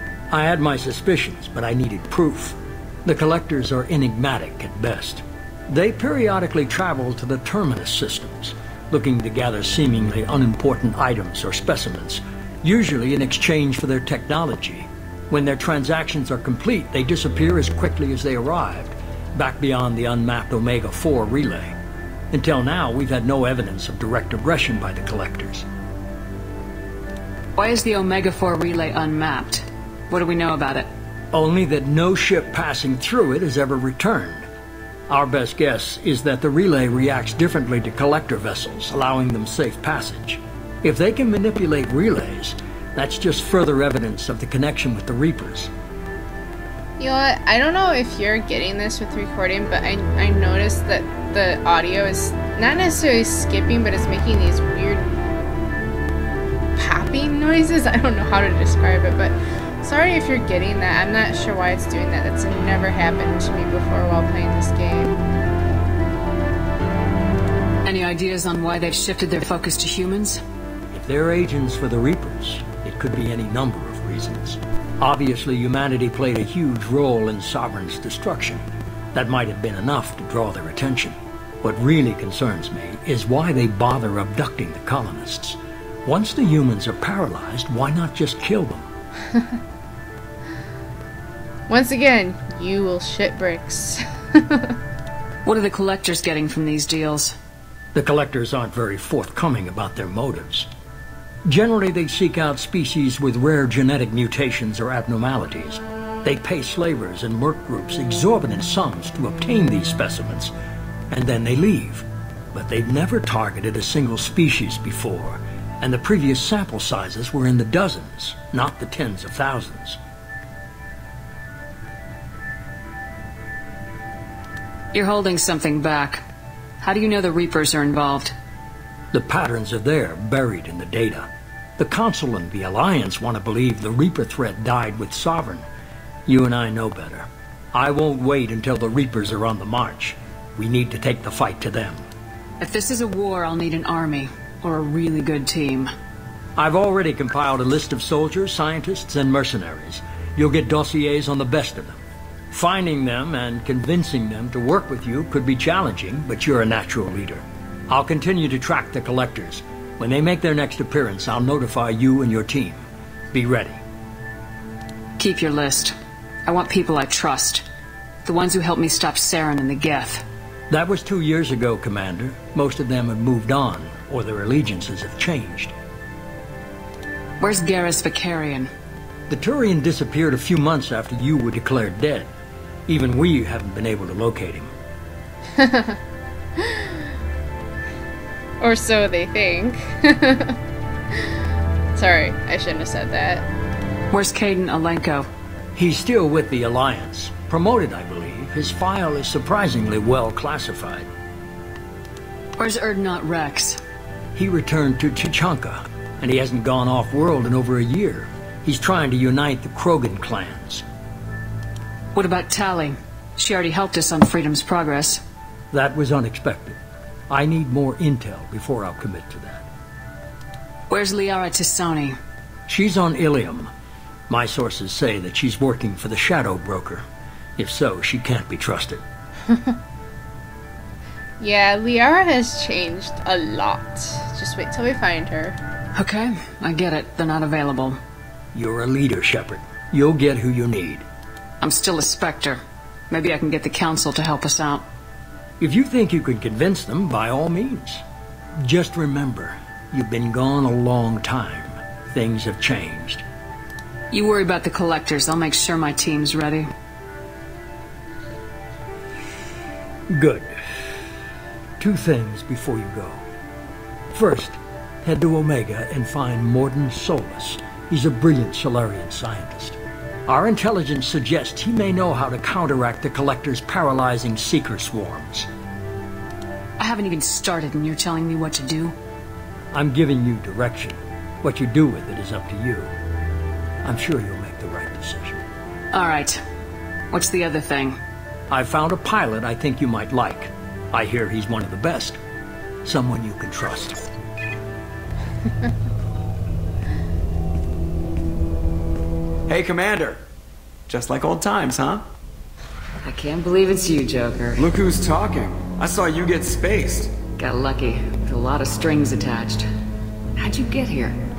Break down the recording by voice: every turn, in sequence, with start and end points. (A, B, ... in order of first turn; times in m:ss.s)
0:00.3-0:21.7 A
0:22.3-0:25.6 A
0:27.6-0:30.9 B
0:31.3-0:34.4 A
0:35.1-0:45.7 A
0:47.0-0:55.0 C
0:56.8-1:05.2 C
1:07.8-1:10.4 B
1:10.9-1:18.6 A
1:19.1-1:28.9 A
1:31.7-1:34.7 C
1:35.4-1:37.3 B
1:37.9-1:40.7 A
1:41.5-1:50.5 A
1:51.1-2:00.0 A
2:04.9-2:06.2 B
2:06.8-2:08.3 B
2:09.1-2:15.6 A
2:16.3-2:22.0 A
2:22.6-2:25.9 B
2:26.6-2:32.0 A
2:32.5-2:43.8 A
2:45.2-2:45.9 B
2:46.4-2:47.6 B
2:48.2-2:50.2 B
2:50.7-2:55.7 A
2:57.4-2:58.7 B
2:59.3-3:02.3 A
3:02.9-3:04.7 A
3:05.6-3:05.9 C
3:08.6-3:10.6 C
3:12.0-3:13.5 C
3:14.1-3:15.3 B
3:15.8-3:21.1 A
3:22.6-3:23.8 B
3:24.4-3:30.8 A
3:32.1-3:35.2 B
3:35.7-3:36.8 A
3:37.3-3:39.6 A
3:40.9-3:42.2 B
3:42.7-3:43.7 A
3:44.3-3:47.0 A
3:47.6-3:49.0 A
3:49.5-3:49.7 C
3:51.4-3:55.6 C
3:56.0-3:58.0 B
3:58.5-4:01.0 A
4:01.6-4:04.8 B
4:05.6-4:08.0 A
4:08.6-4:13.2 A
4:14.1-4:16.7 B
4:20.1-4:20.5 A
4:21.8-4:23.2 A
4:24.1-4:35.5 A
4:36.8-4:39.0 B
4:39.7-4:42.9 A
4:43.8-4:45.4 A
4:45.9-4:46.4 B
4:47.1-4:48.0 B
4:48.5-4:52.2 A
4:52.8-4:54.0 A
4:59.5-5:00.2 D
5:00.9-5:02.0 D
5:03.3-5:03.8 B
5:04.5-5:07.2 D
5:07.4-5:09.5 B
5:10.4-5:11.1 B